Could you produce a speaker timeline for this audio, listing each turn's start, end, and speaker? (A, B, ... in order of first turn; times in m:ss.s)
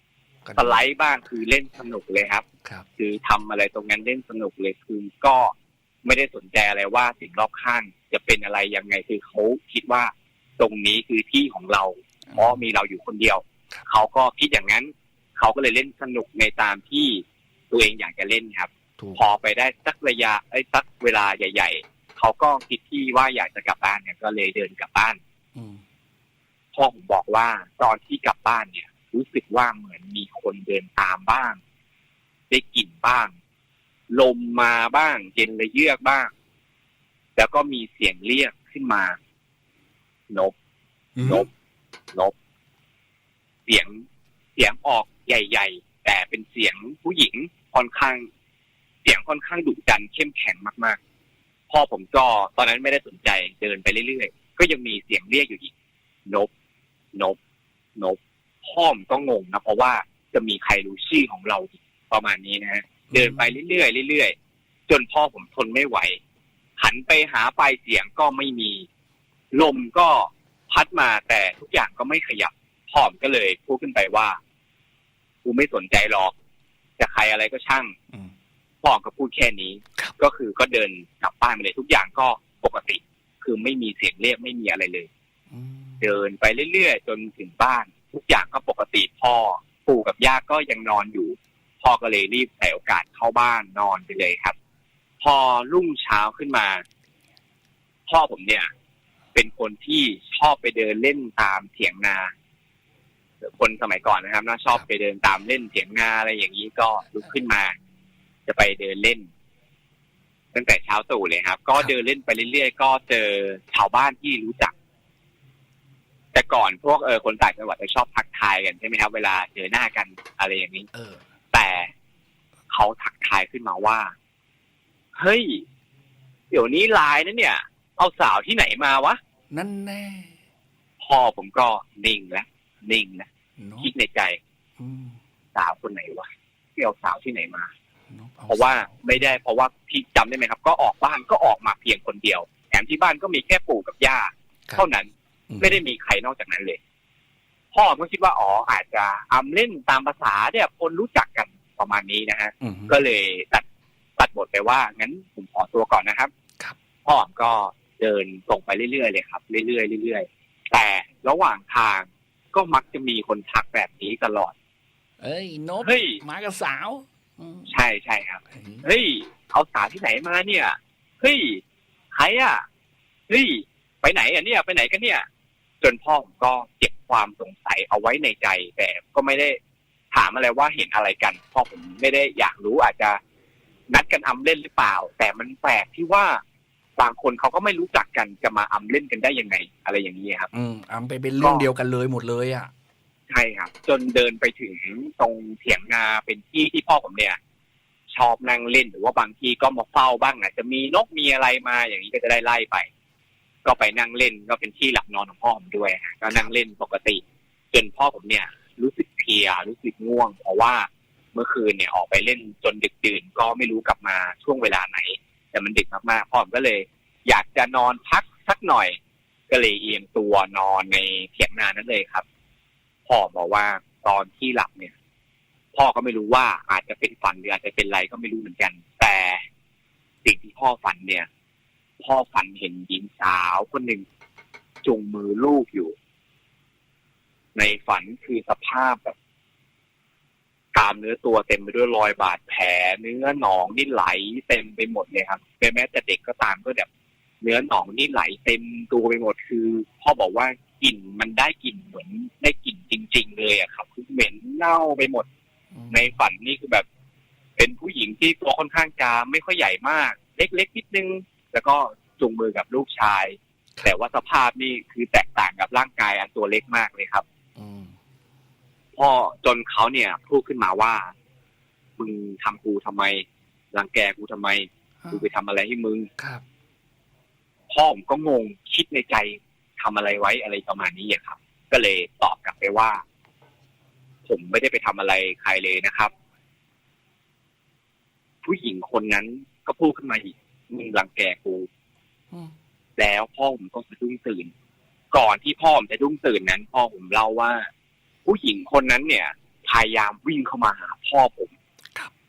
0:00.4-0:00.8 A
0:00.6-0:02.5 B
0:03.0-0:25.2 B
0:12.3-0:12.6 A
0:19.0-0:19.2 A
0:25.5-0:25.8 A
0:26.7-0:31.6 B
0:32.5-0:33.3 B
0:34.1-0:36.3 B
0:37.4-0:39.2 B
0:41.2-0:41.5 A
0:41.2-0:41.5 B
0:43.7-0:44.0 B
0:44.6-0:48.3 B
0:49.0-0:51.0 B
0:51.7-0:55.7 B
0:58.0-1:04.4 B
1:03.1-1:03.5 A
1:04.9-1:06.2 B
1:06.8-1:08.9 B
1:09.5-1:14.4 B
1:15.4-1:16.3 B
1:17.0-1:17.9 B
1:18.8-1:25.1 B
1:25.5-1:26.0 A
1:26.0-1:34.6 B
1:35.2-1:36.8 B
1:38.1-1:38.7 B
1:39.3-1:42.3 B
1:43.4-1:47.8 B
1:48.5-1:49.3 B
1:50.5-1:54.7 B
1:56.3-2:00.9 B
2:00.9-2:01.3 A
2:01.5-2:01.9 B
2:02.7-2:04.1 B
2:05.1-2:05.6 B
2:06.5-2:09.2 B
2:09.5-2:10.4 A
2:11.0-2:13.3 B
2:13.6-2:13.9 A
2:13.8-2:14.4 B
2:14.8-2:15.2 A
2:15.5-2:17.7 B
2:18.1-2:19.2 A
2:18.5-2:26.8 B
2:25.5-2:25.8 A
2:27.7-2:33.6 B
2:32.6-2:33.0 A
2:34.2-2:36.3 B
2:37.0-2:44.5 B
2:45.2-2:47.7 A
2:45.8-2:46.2 B
2:47.7-2:52.6 B
2:48.5-2:48.9 A
2:53.3-2:55.2 B
2:55.8-2:59.6 B
3:00.1-3:03.2 B
3:03.9-3:06.4 B
3:07.0-3:10.5 B
3:10.5-3:12.7 A
3:11.4-3:11.6 B
3:13.3-3:17.4 B
3:18.1-3:22.9 B
3:23.6-3:39.0 B
3:39.5-3:42.2 B
3:43.1-3:44.9 B
3:45.7-3:49.4 B
3:50.2-3:51.3 B
3:52.0-3:54.0 B
3:54.8-3:55.9 B
3:57.5-3:59.2 B
4:00.7-4:06.9 B
4:07.4-4:15.3 B
4:15.7-4:16.0 A
4:15.9-4:16.8 B
4:17.6-4:27.2 B
4:27.6-4:27.9 A
4:29.0-4:31.1 B
4:32.0-4:36.1 B
4:36.2-4:36.4 A
4:37.7-4:43.0 B
4:44.3-4:46.1 B
4:48.4-4:51.7 B
4:53.0-4:54.5 B
4:55.1-4:57.7 B
4:58.2-5:01.5 B